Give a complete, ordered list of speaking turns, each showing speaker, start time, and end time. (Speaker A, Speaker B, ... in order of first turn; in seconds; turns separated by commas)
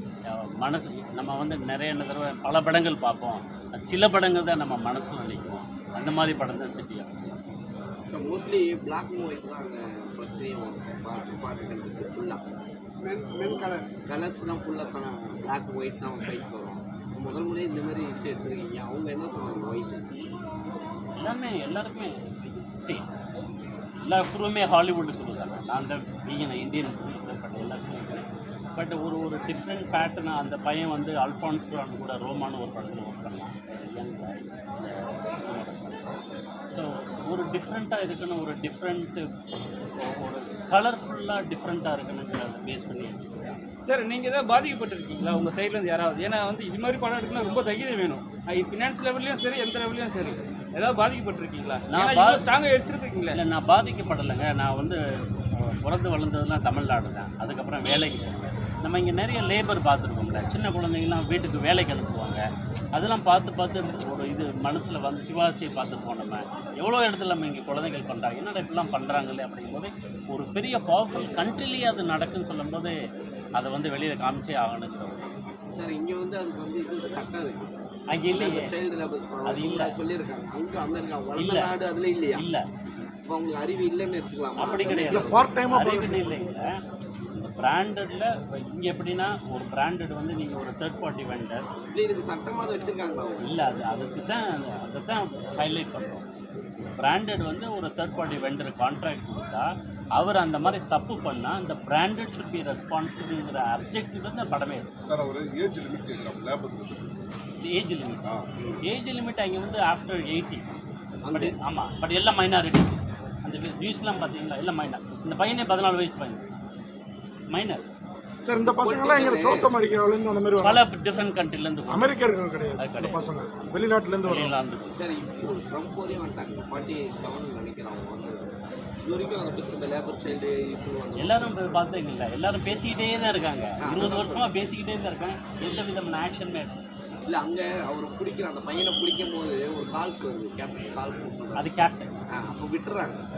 Speaker A: 0.3-7.5, Speaker B: 8.1-12.4, Speaker C: 13.1-13.6, Speaker B: 13.4-20.1, Speaker A: 21.2-23.1, Speaker A: 24.1-28.2, Speaker A: 28.8-36.0, Speaker A: 36.7-39.2, Speaker A: 40.0-43.6, Speaker D: 43.9-53.4, Speaker A: 51.9-52.5, Speaker A: 53.3-55.0, Speaker A: 55.5-62.4, Speaker A: 63.0-72.9, Speaker A: 73.6-75.3, Speaker B: 75.8-77.7, Speaker A: 78.1-78.7, Speaker B: 78.3-82.4, Speaker A: 79.5-80.0, Speaker A: 81.4-81.7, Speaker A: 82.3-82.7, Speaker B: 83.2-85.5, Speaker A: 84.6-86.6, Speaker C: 84.8-86.3, Speaker A: 87.4-91.6, Speaker B: 91.9-93.4, Speaker A: 93.5-96.2, Speaker A: 96.8-99.7, Speaker A: 100.2-104.9, Speaker E: 105.0-107.1, Speaker A: 107.6-110.8, Speaker B: 108.6-108.8, Speaker B: 111.2-111.6, Speaker A: 111.3-116.5, Speaker A: 117.5-117.8, Speaker C: 118.5-120.8, Speaker B: 118.7-119.7, Speaker A: 120.6-122.2, Speaker C: 121.9-124.5, Speaker A: 122.8-123.2, Speaker A: 124.2-125.1, Speaker B: 125.0-128.5, Speaker B: 129.1-131.6, Speaker A: 131.2-136.8, Speaker B: 133.8-134.5, Speaker B: 137.3-141.7, Speaker A: 141.6-142.1, Speaker B: 142.4-143.2